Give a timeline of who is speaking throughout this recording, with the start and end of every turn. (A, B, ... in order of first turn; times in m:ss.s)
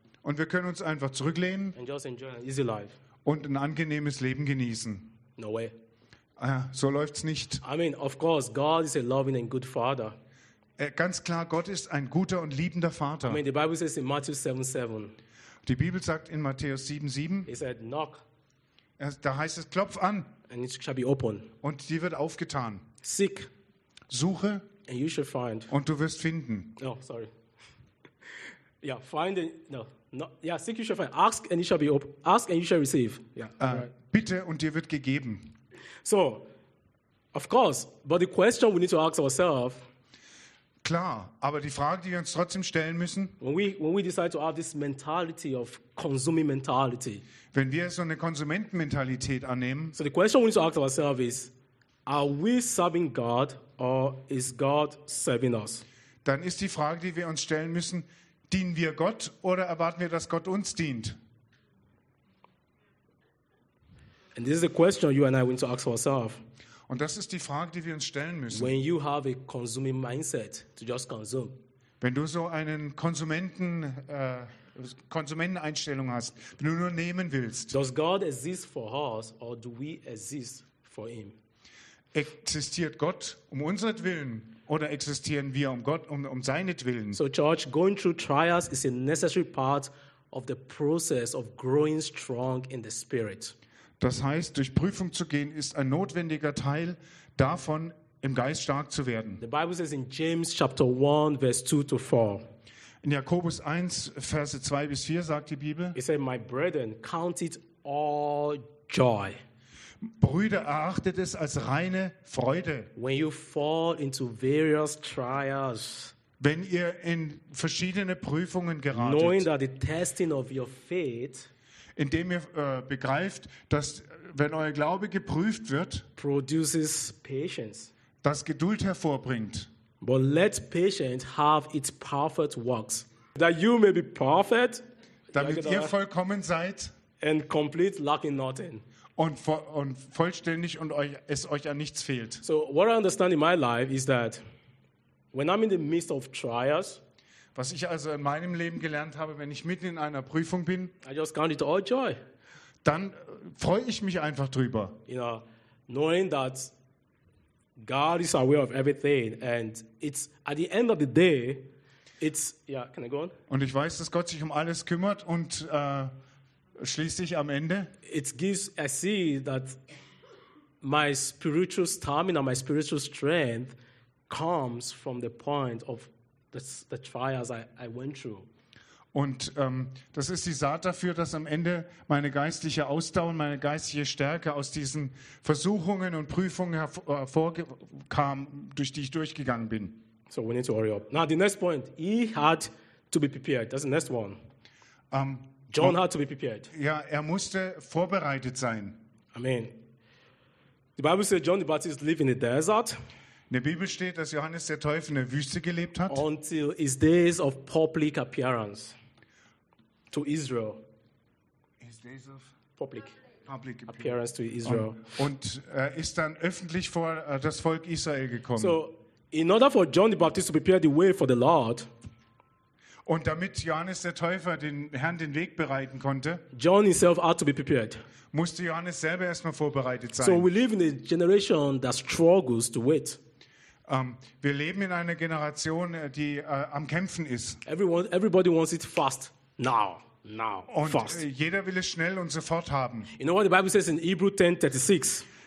0:00.2-0:01.8 A
0:01.8-0:03.0 B
0:03.2-0:05.1 A
0:05.4-0:05.7 B
0:06.4-0:07.6 A
0:07.6-0:10.2 B
0:10.8-0:13.4 A
0:13.2-0:15.2 B
0:15.6-0:17.5 A
0:17.5-0:18.2 B
0:19.0-0:20.3 A
0:20.5-0:21.5 B
0:21.6-0:22.8 A
0:23.0-0:23.5 B
0:24.1-0:24.7 A
0:24.9-0:25.7 B
0:25.7-0:26.7 A
0:26.8-0:27.3 B
0:28.8-0:33.9 B
0:33.6-0:35.5 A
0:36.0-0:36.5 B
0:37.3-0:39.8 B
0:40.8-0:43.3 A
0:43.4-0:47.2 B
0:47.5-0:50.0 A
0:49.9-0:51.5 B
0:52.0-0:55.8 B
0:56.2-1:01.2 A
1:04.3-1:06.4 B
1:06.9-1:08.7 A
1:08.5-1:11.6 B
1:12.0-1:17.7 A
1:17.7-1:21.4 B
1:22.1-1:27.2 A
1:27.1-1:33.5 B
1:34.0-1:39.4 A
1:39.4-1:42.4 B
1:43.0-1:46.0 A
1:45.9-1:49.4 B
1:50.1-1:52.9 A
1:53.0-1:56.1 B
1:56.4-1:59.5 A
1:58.9-2:01.5 B
2:02.0-2:06.0 A
2:06.2-2:07.9 B
2:08.2-2:09.7 A
2:10.0-2:15.9 B
2:15.3-2:16.9 A
2:17.2-2:18.8 B
2:19.2-2:22.4 A
2:22.4-2:24.4 B
2:25.3-2:27.0 B
2:27.5-2:30.9 A
2:31.0-2:32.2 B
2:32.8-2:35.0 A
2:35.1-2:36.7 B
2:37.8-2:41.7 B
2:42.2-2:43.4 B
2:43.5-2:46.1 A
2:46.8-2:47.9 A
2:48.0-2:49.8 B
2:50.8-2:53.8 B
2:54.3-2:58.5 B
2:59.1-3:10.0 A
3:10.3-3:14.4 B
3:15.1-3:16.0 A
3:15.7-3:16.7 B
3:16.7-3:19.0 A
3:19.3-3:19.8 B
3:21.0-3:23.0 B
3:23.5-3:26.2 A
3:26.1-3:29.0 B
3:30.1-3:30.8 B
3:31.8-3:32.5 A
3:32.8-3:33.1 B
3:33.4-3:38.8 A
3:33.9-3:35.1 B
3:38.6-3:41.9 B
3:43.0-3:46.4 A
3:46.5-3:48.0 B
3:48.3-3:50.5 A
3:50.2-3:53.2 B
3:53.9-3:57.6 A
3:57.6-4:01.2 B
4:00.7-4:03.1 A
4:03.2-4:05.2 B